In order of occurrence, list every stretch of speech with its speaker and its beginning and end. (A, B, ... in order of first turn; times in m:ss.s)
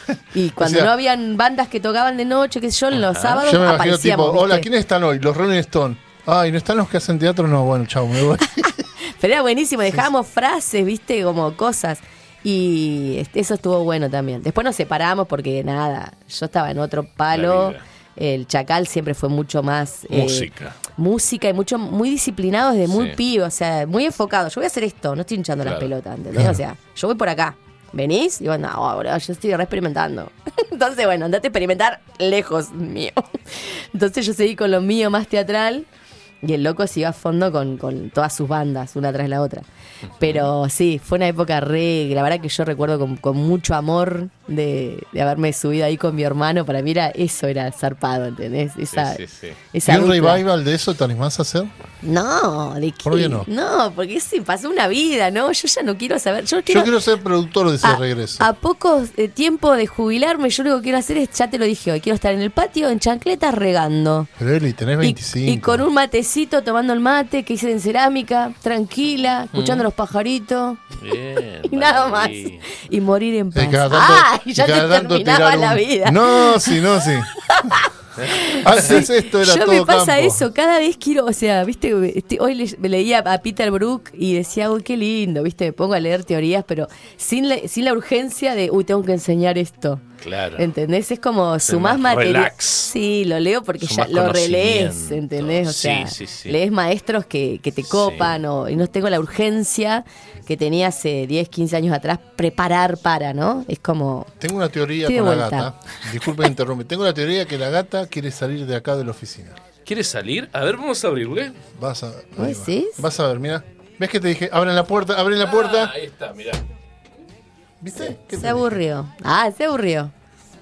0:00.3-0:04.7 A
0:00.6-0:00.9 B
0:02.9-0:03.4 C
0:03.4-0:08.7 B
0:08.5-0:35.9 A
0:17.3-0:17.8 C
0:20.1-0:20.8 C
0:22.9-0:23.2 C
0:25.6-0:25.9 C
0:26.3-0:26.6 B
0:36.4-0:39.6 A
0:40.2-0:40.5 C
0:40.2-0:49.2 A
0:48.9-0:49.6 C
0:49.7-0:50.4 A
0:49.9-0:51.7 B
0:52.0-0:56.9 A
0:53.0-0:53.5 B
0:56.7-0:58.5 B
0:57.8-1:04.3 A
1:04.4-1:05.8 B
1:05.0-1:10.9 A
1:09.5-1:09.9 C
1:10.9-1:12.7 C
1:11.6-1:16.8 A
1:13.5-1:17.8 B
1:17.5-1:30.0 A
1:18.2-1:19.1 C
1:18.6-1:20.4 B
1:30.2-1:30.7 C
1:30.6-1:44.3 A
1:31.7-1:32.9 C
1:33.8-1:36.6 C
1:37.9-1:38.4 C
1:44.4-1:49.6 B
1:45.1-1:45.7 A
1:49.9-1:51.6 C
1:51.8-1:55.9 B
1:52.4-1:53.0 A
1:55.4-1:56.6 C
1:57.8-1:58.8 B
1:58.0-2:00.1 A